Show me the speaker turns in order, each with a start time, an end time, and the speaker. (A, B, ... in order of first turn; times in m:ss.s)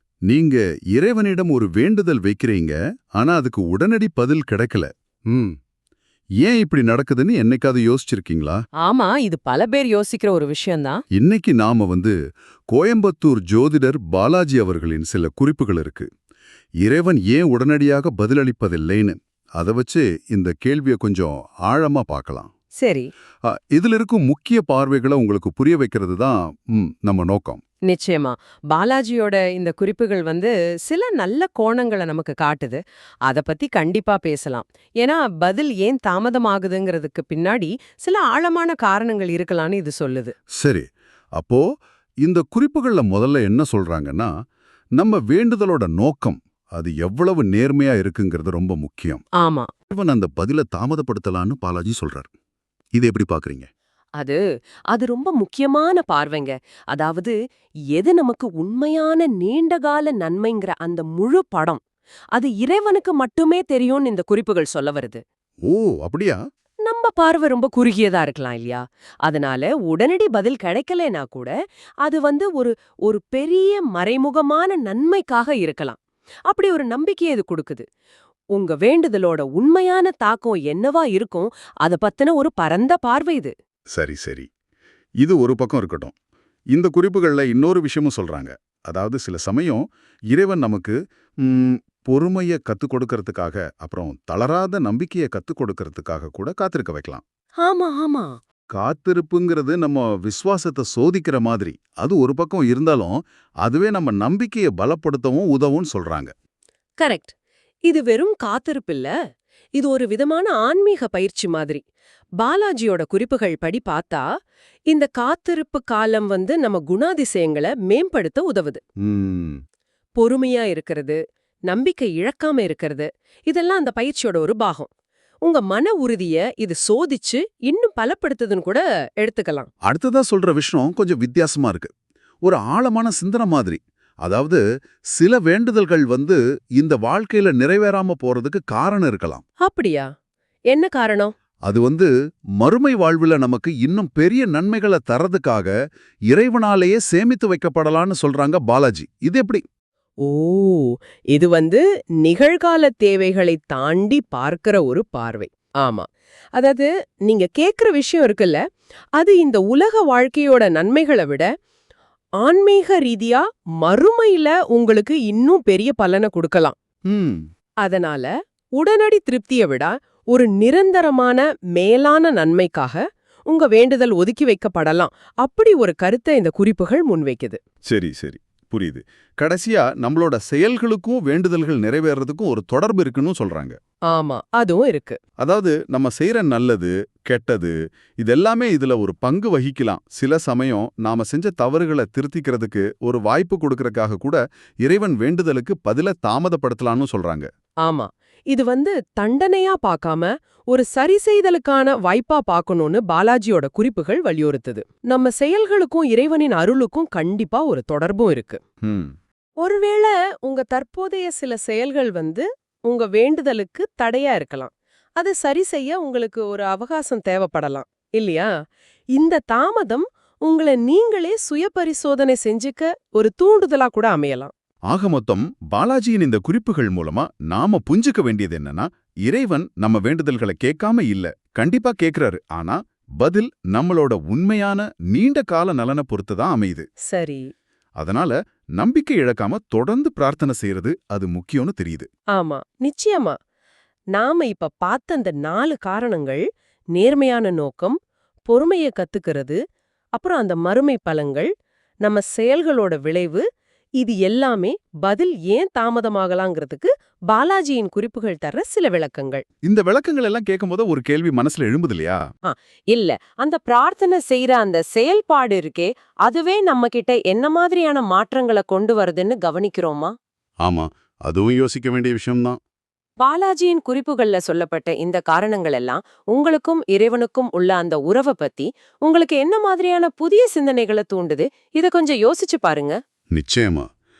0:00.3-0:05.6 A
0:06.4-0:08.6 A
0:08.8-0:11.0 B
0:11.1-0:12.1 A
0:12.7-0:16.1 A
0:16.8-0:22.5 A
0:22.8-0:23.1 B
0:23.5-0:27.6 A
0:27.8-0:40.3 B
0:40.6-0:40.8 A
0:41.4-0:41.6 A
0:42.2-0:44.3 A
0:45.0-0:49.2 A
0:49.4-0:49.7 B
0:49.9-0:52.3 A
0:53.0-0:53.7 A
0:54.9-0:57.3 C
0:57.9-1:01.8 C
1:02.4-1:05.2 C
1:05.6-1:06.4 A
1:06.8-1:11.5 C
1:12.0-1:16.0 C
1:16.5-1:17.8 C
1:18.6-1:23.5 C
1:24.0-1:24.5 A
1:25.2-1:26.1 A
1:26.7-1:37.2 A
1:37.6-1:38.3 C
1:38.7-1:46.3 A
1:47.0-1:47.3 C
1:47.9-1:49.1 C
1:49.8-1:51.8 C
1:52.4-1:54.2 C
1:54.9-1:58.8 C
1:59.0-1:59.6 A
2:00.2-2:01.2 C
2:01.7-2:04.9 C
2:05.4-2:09.7 C
2:09.8-2:11.9 A
2:12.4-2:14.6 A
2:15.2-2:19.4 A
2:19.6-2:20.1 C
2:20.7-2:21.3 C
2:21.6-2:22.1 A
2:22.6-2:25.7 A
2:26.3-2:29.6 A
2:30.2-2:38.6 C
2:39.2-2:41.5 C
2:42.4-2:46.7 C
2:47.1-2:47.5 A
2:47.8-2:57.6 C
2:57.9-3:03.8 A
3:04.1-3:05.2 C
3:05.4-3:17.5 A
3:17.8-3:28.6 C
3:28.8-3:29.1 A
3:29.6-3:38.5 C
3:39.2-3:44.5 C
3:44.9-3:56.8 A
3:57.1-3:57.4 C
3:58.0-4:02.1 A
4:02.4-4:03.3 C
4:04.1-4:06.4 C
4:06.9-4:08.0 C
4:08.5-4:09.6 C
4:10.1-4:11.5 C
4:12.0-4:13.4 C
4:14.0-4:19.4 C
4:19.6-4:22.2 A
4:22.4-4:30.1 C
4:30.6-4:32.6 A
4:33.2-4:43.0 C
4:43.3-4:43.9 A